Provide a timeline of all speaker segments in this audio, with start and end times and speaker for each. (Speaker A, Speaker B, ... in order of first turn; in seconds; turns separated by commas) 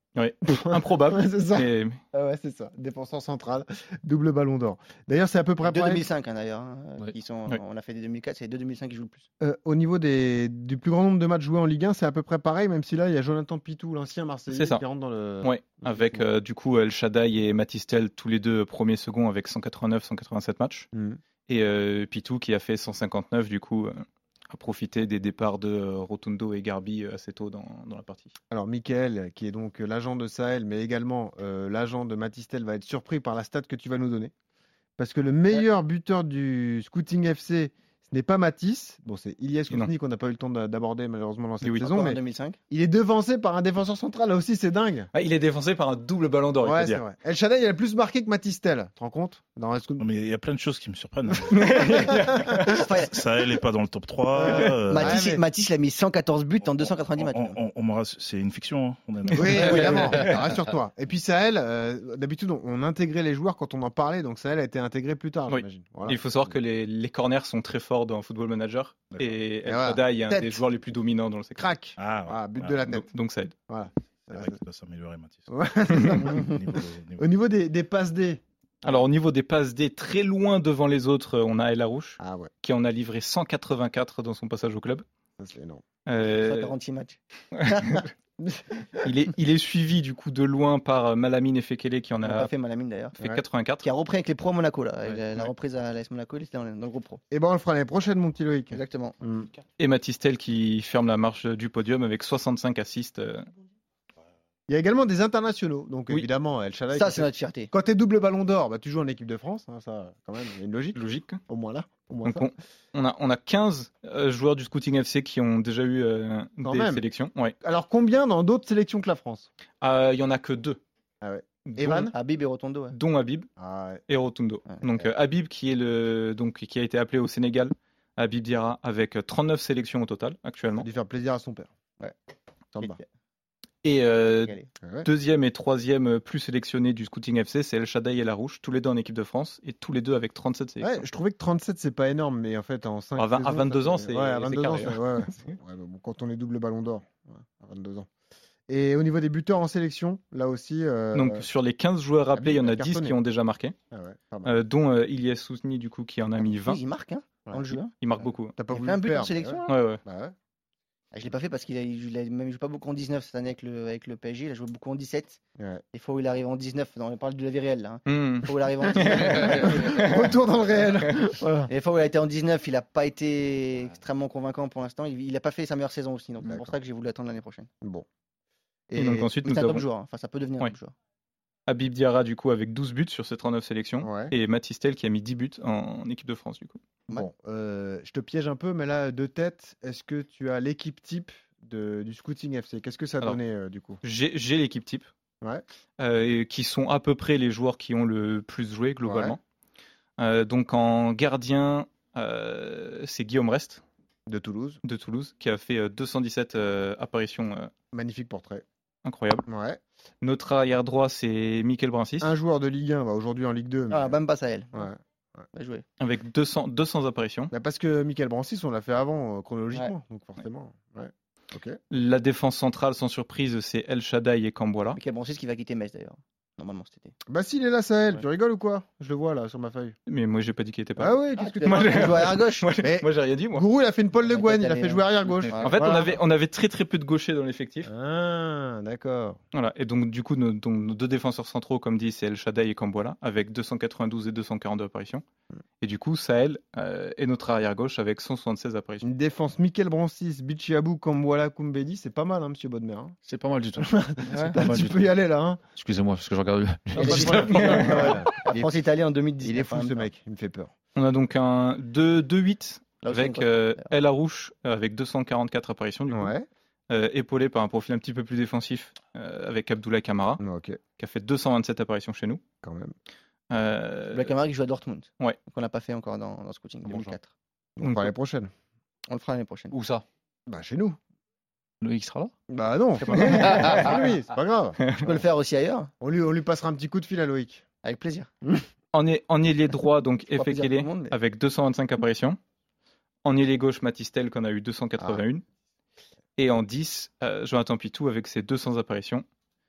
Speaker A: 0.1-2.0, Speaker B: 0.5-6.0, Speaker C: 5.6-9.3, Speaker B: 9.4-16.2, Speaker A: 14.5-14.8, Speaker A: 15.4-20.9, Speaker B: 20.9-21.2, Speaker A: 21.5-28.3, Speaker B: 28.5-34.3, Speaker B: 35.0-42.2, Speaker A: 41.6-42.0, Speaker C: 41.8-42.6, Speaker B: 42.7-45.1, Speaker A: 45.1-47.0, Speaker B: 46.6-50.0, Speaker D: 50.0-52.1, Speaker A: 51.5-52.6, Speaker C: 52.7-53.2, Speaker D: 53.0-55.2, Speaker B: 54.4-55.4, Speaker C: 54.4-57.6, Speaker D: 56.6-60.3, Speaker B: 59.3-66.2, Speaker A: 59.4-60.4, Speaker A: 65.5-71.7, Speaker D: 69.1-69.4, Speaker B: 69.7-70.6, Speaker B: 71.6-73.1, Speaker D: 72.0-72.8, Speaker A: 72.9-73.5, Speaker B: 73.7-74.6, Speaker D: 74.3-75.5, Speaker B: 75.5-78.4, Speaker D: 76.2-77.2, Speaker A: 78.8-85.0, Speaker B: 82.2-82.5, Speaker B: 85.4-85.8, Speaker A: 86.0-86.7, Speaker C: 86.4-87.2, Speaker A: 87.5-88.1, Speaker C: 87.7-88.0, Speaker B: 88.4-89.0, Speaker A: 89.0-92.5, Speaker C: 92.2-93.2, Speaker A: 93.2-93.9, Speaker C: 93.8-97.2, Speaker A: 95.1-95.5, Speaker B: 97.3-99.5, Speaker C: 98.7-99.2, Speaker A: 99.8-103.5, Speaker B: 104.7-112.5, Speaker C: 106.9-107.7, Speaker A: 110.9-111.4, Speaker A: 112.2-117.5, Speaker B: 116.6-117.0, Speaker B: 117.6-119.5, Speaker A: 119.8-120.8, Speaker B: 121.2-122.1, Speaker A: 121.6-122.1, Speaker C: 122.0-123.0, Speaker A: 122.9-123.5, Speaker B: 123.6-124.0, Speaker A: 124.1-130.9, Speaker B: 130.8-131.7, Speaker C: 132.8-133.1, Speaker A: 133.8-141.1, Speaker B: 134.8-135.1, Speaker B: 140.8-148.1, Speaker A: 143.2-145.0, Speaker B: 148.7-151.4, Speaker A: 151.1-153.7, Speaker B: 152.3-153.2, Speaker B: 153.9-154.6, Speaker A: 154.4-156.8, Speaker C: 156.6-158.0, Speaker B: 157.4-160.3, Speaker A: 158.0-158.6, Speaker C: 158.7-159.7, Speaker A: 159.7-160.0, Speaker C: 161.1-165.4, Speaker C: 165.9-170.0, Speaker A: 168.1-170.3, Speaker B: 169.6-171.7, Speaker C: 171.7-177.7, Speaker B: 176.4-176.7, Speaker B: 178.9-179.3, Speaker A: 179.0-179.8, Speaker C: 179.4-180.9, Speaker A: 181.7-186.8, Speaker B: 184.0-184.3, Speaker B: 187.1-194.0, Speaker A: 194.0-195.1, Speaker A: 196.0-199.4, Speaker B: 199.0-199.4, Speaker A: 200.2-203.8, Speaker B: 204.3-204.8, Speaker A: 204.8-207.7, Speaker B: 207.9-208.6, Speaker A: 209.0-209.4, Speaker B: 209.5-209.8, Speaker A: 210.2-212.3, Speaker B: 212.2-214.2, Speaker C: 213.9-214.9, Speaker B: 214.7-215.4, Speaker C: 215.5-215.8, Speaker A: 216.0-217.5, Speaker B: 217.5-221.8, Speaker A: 221.9-225.0, Speaker C: 224.9-227.1, Speaker B: 227.3-229.9, Speaker A: 230.1-233.6, Speaker B: 231.0-236.2, Speaker C: 231.4-232.8, Speaker C: 234.2-236.0, Speaker A: 235.6-237.9, Speaker B: 237.8-239.4, Speaker A: 239.5-245.2, Speaker A: 245.8-249.1, Speaker B: 249.0-253.2, Speaker E: 253.2-255.1, Speaker B: 253.8-255.6, Speaker C: 254.4-254.6, Speaker E: 255.8-258.4, Speaker C: 257.0-260.1, Speaker A: 257.0-257.9, Speaker B: 257.0-258.8, Speaker B: 259.4-260.7, Speaker A: 260.9-266.3, Speaker C: 263.0-263.9, Speaker B: 266.1-266.5, Speaker A: 266.9-270.4, Speaker B: 270.4-270.8, Speaker A: 271.0-272.4, Speaker B: 272.6-272.9, Speaker A: 273.5-274.3, Speaker C: 274.1-277.3, Speaker E: 276.8-277.1, Speaker B: 277.8-278.5, Speaker A: 277.8-278.1, Speaker C: 279.1-279.7, Speaker E: 279.7-280.0, Speaker B: 280.5-281.0, Speaker E: 281.8-282.3, Speaker B: 282.5-285.2, Speaker C: 283.3-283.9, Speaker A: 283.3-283.9, Speaker A: 284.8-285.1, Speaker C: 285.0-285.9, Speaker B: 286.0-287.6, Speaker C: 287.8-288.3, Speaker A: 288.9-292.4, Speaker C: 290.3-291.1, Speaker A: 293.2-295.4, Speaker A: 296.4-299.2